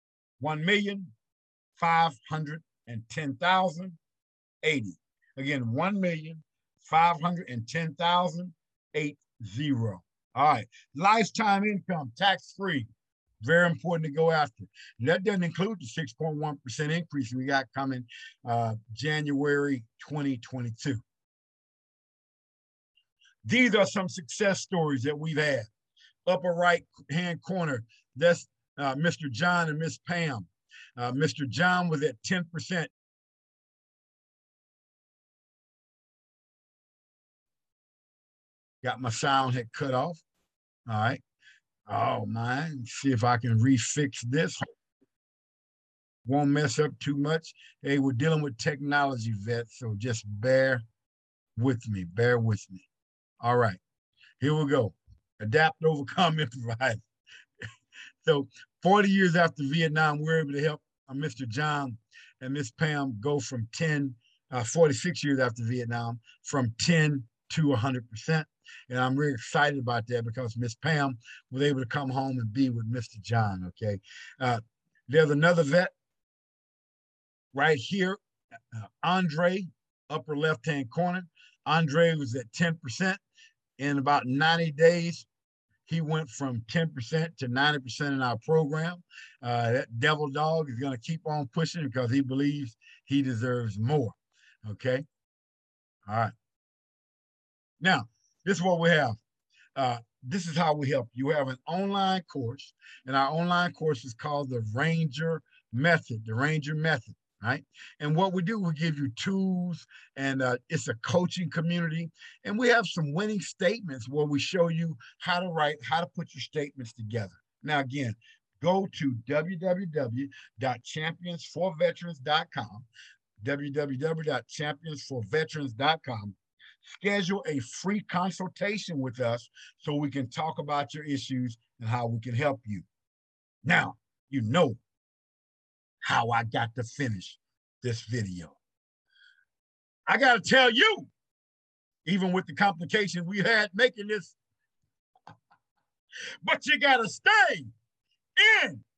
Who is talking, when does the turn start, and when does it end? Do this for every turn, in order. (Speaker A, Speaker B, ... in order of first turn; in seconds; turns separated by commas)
Speaker A: 0.4-1.1, Speaker A: 1.8-4.0, Speaker A: 4.6-12.9, Speaker A: 13.4-21.0, Speaker A: 23.4-25.7, Speaker A: 26.3-32.9, Speaker A: 38.8-40.2, Speaker A: 40.9-41.2, Speaker A: 41.9-44.7, Speaker A: 46.2-50.8, Speaker A: 51.6-52.9, Speaker A: 53.4-53.8, Speaker A: 54.4-57.0, Speaker A: 58.2-75.9, Speaker A: 77.5-78.2, Speaker A: 78.7-83.2, Speaker A: 83.8-85.3, Speaker A: 85.9-95.0, Speaker A: 96.1-96.3, Speaker A: 97.8-99.2, Speaker A: 99.8-122.9, Speaker A: 123.4-132.9, Speaker A: 133.6-134.8, Speaker A: 136.0-138.6, Speaker A: 140.1-141.1, Speaker A: 142.1-144.4, Speaker A: 146.4-147.7, Speaker A: 148.4-148.8